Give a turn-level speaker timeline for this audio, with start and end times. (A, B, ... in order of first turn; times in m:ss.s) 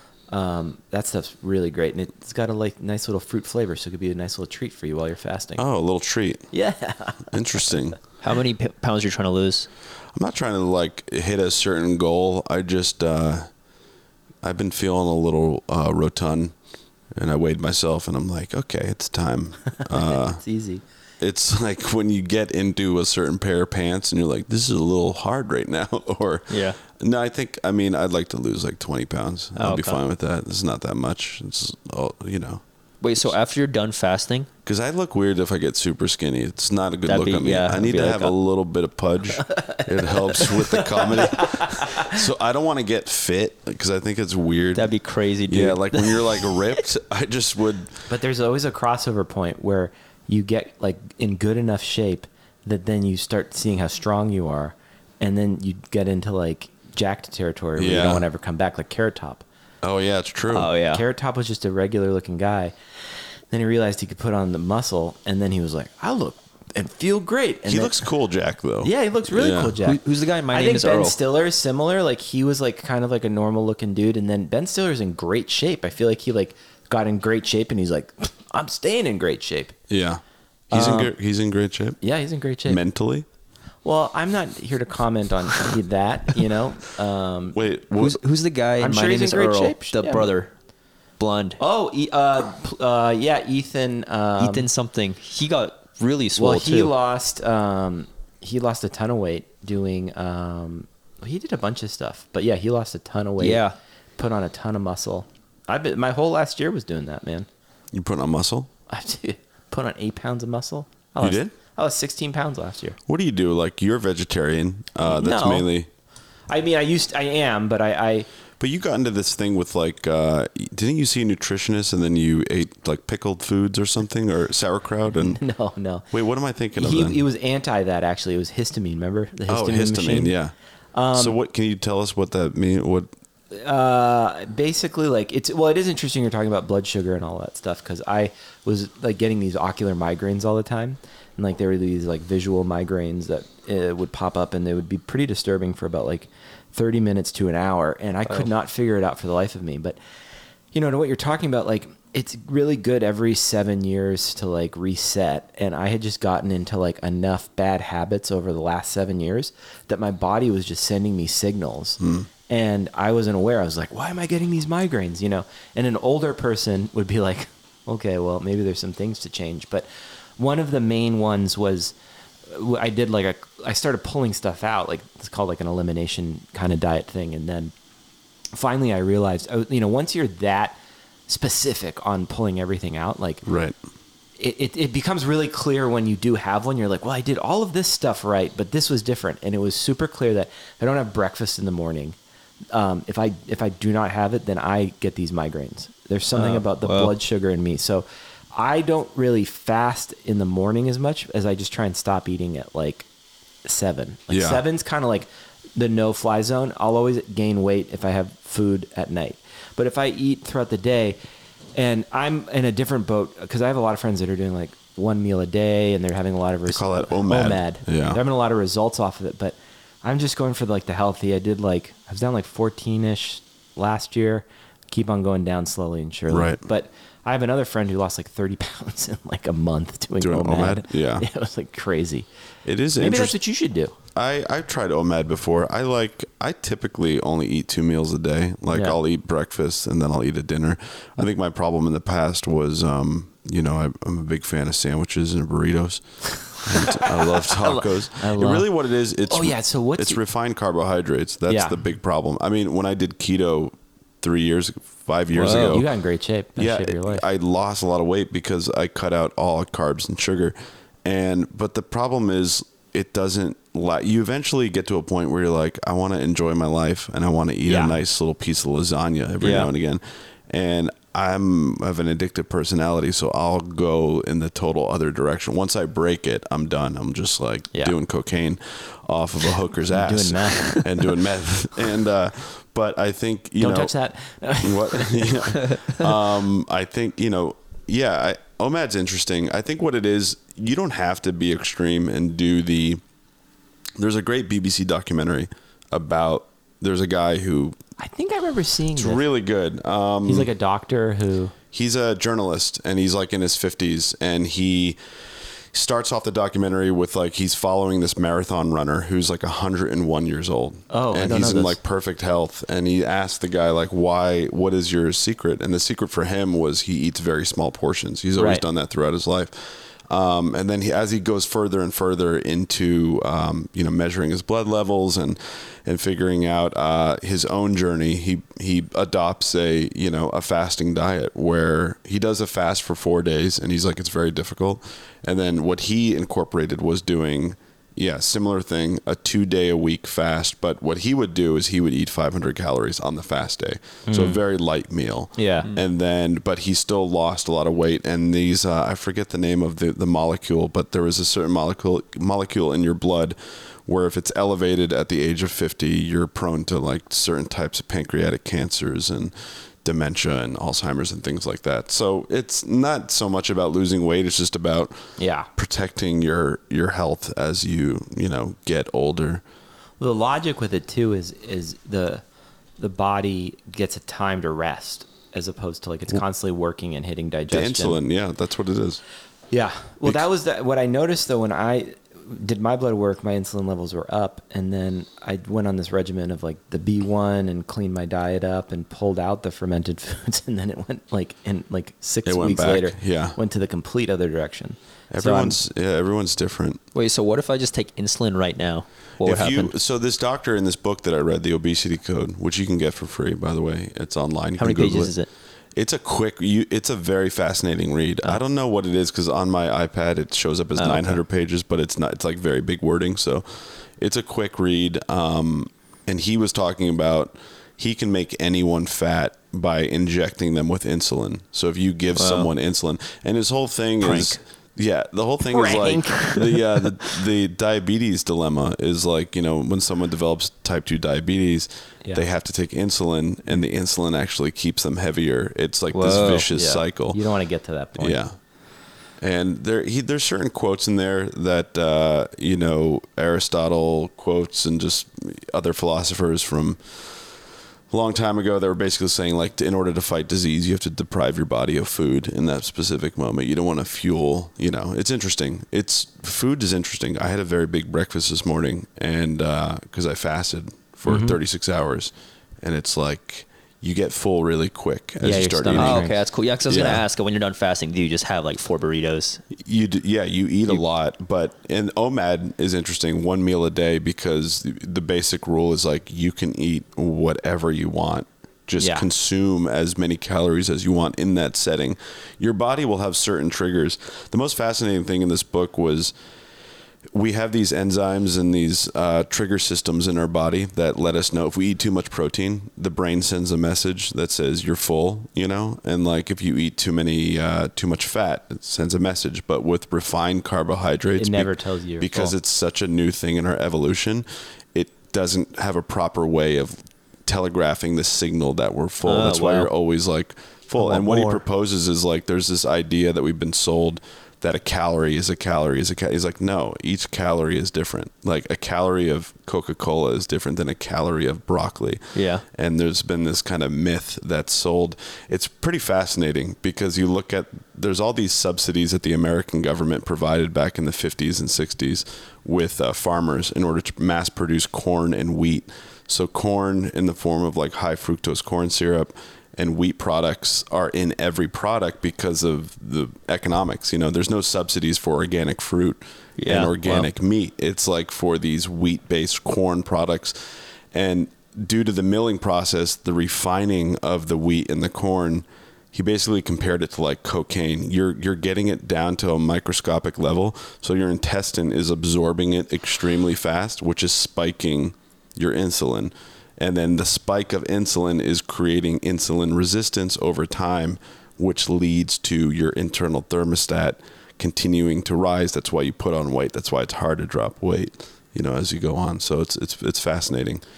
0:00.3-0:05.6 A
0:05.6-0:06.4 B
0:06.5-0:07.3 A
0:07.3-0:08.0 B
0:08.2-0:09.7 C
0:10.1-0:13.5 B
0:14.4-0:16.5 B
0:17.2-0:20.4 B
0:19.8-0:20.8 A
0:21.2-0:32.6 B
0:26.5-0:26.8 C
0:29.6-0:30.0 C
0:33.0-0:34.5 C
0:34.6-0:44.9 B
0:37.0-0:38.3 C
0:39.4-0:42.2 A
0:44.7-0:46.8 C
0:45.5-0:48.0 B
0:48.1-0:59.4 A
0:57.8-0:58.2 B
0:59.8-1:00.7 B
1:00.5-1:01.0 C
1:00.9-1:02.7 A
1:03.5-1:08.0 A
1:07.7-1:09.8 B
1:08.8-1:19.7 A
1:09.8-1:11.2 C
1:19.9-1:22.0 B
1:20.7-1:21.1 A
1:22.0-1:22.8 A
1:22.6-1:23.2 B
1:23.8-1:27.6 A
1:27.5-1:28.2 B
1:28.0-1:30.5 C
1:28.8-1:30.3 A
1:31.2-1:31.6 C
1:31.6-1:34.7 A
1:34.4-1:36.9 C
1:36.4-1:43.6 A
1:43.4-1:43.7 C
1:44.2-1:47.5 A
1:47.9-1:48.7 B
1:48.9-1:53.0 A
1:51.2-1:51.5 B
1:53.1-1:55.9 B
1:55.0-1:55.7 A
1:56.5-1:58.3 A
1:58.6-2:05.4 B
2:05.1-2:06.1 A
2:06.1-2:07.2 B
2:06.8-2:10.3 A
2:09.5-2:10.5 B
2:10.9-2:11.4 A
2:11.1-2:13.1 B
2:13.5-2:30.0 A
2:30.7-2:51.9 A
2:42.0-2:42.3 B
2:52.5-2:57.7 A
2:58.5-3:03.4 A
3:03.4-3:03.8 B
3:04.4-3:12.2 A
3:12.7-3:23.1 A
3:16.3-3:17.1 C
3:23.6-3:31.2 A
3:24.3-3:24.6 B
3:31.7-3:52.3 A
3:36.7-3:38.2 B
3:46.3-3:46.6 B
3:50.2-3:51.2 B
3:52.6-3:53.4 B
3:53.0-3:53.9 A
3:54.1-4:15.8 B
3:58.7-3:59.0 A
4:06.7-4:08.7 A
4:09.2-4:10.2 A
4:11.5-4:11.8 A
4:15.4-4:15.8 C
4:15.4-4:17.2 A
4:16.6-4:43.9 B
4:27.6-4:28.0 A
4:29.4-4:29.7 C
4:39.9-4:40.8 A
4:43.6-4:45.7 A
4:44.6-4:53.0 B
4:54.0-4:57.8 B
4:58.0-4:59.2 A
4:59.0-5:00.5 B
5:00.2-5:01.5 A
5:01.7-5:05.0 B
5:05.7-6:09.4 B
5:10.9-5:11.8 A
5:18.4-5:18.6 A
5:44.1-5:44.4 A
5:45.4-5:45.7 A
6:05.2-6:05.5 A
6:10.0-6:12.2 A
6:12.8-6:18.0 A
6:17.5-6:19.0 B
6:19.5-6:35.6 A
6:32.2-6:33.4 B
6:35.1-6:36.8 B
6:36.9-6:39.7 C
6:39.2-6:45.1 B
6:44.6-6:45.3 C
6:45.8-7:17.2 B
6:50.8-6:51.2 C
7:02.1-7:02.5 C
7:04.0-7:04.4 C
7:05.5-7:06.6 A
7:15.9-7:16.5 C
7:16.5-7:18.2 A
7:18.0-7:18.3 B
7:19.2-7:27.4 B
7:27.9-7:46.1 B
7:41.1-7:41.4 A
7:45.2-7:46.2 A
7:45.7-7:49.4 C
7:46.7-7:47.0 B
7:49.5-8:06.1 B
7:58.8-7:59.1 A
8:07.1-9:40.6 B
8:21.2-8:22.3 A
8:29.0-8:29.7 C
8:30.8-8:31.3 C
8:42.1-8:42.4 C
9:06.4-9:07.1 C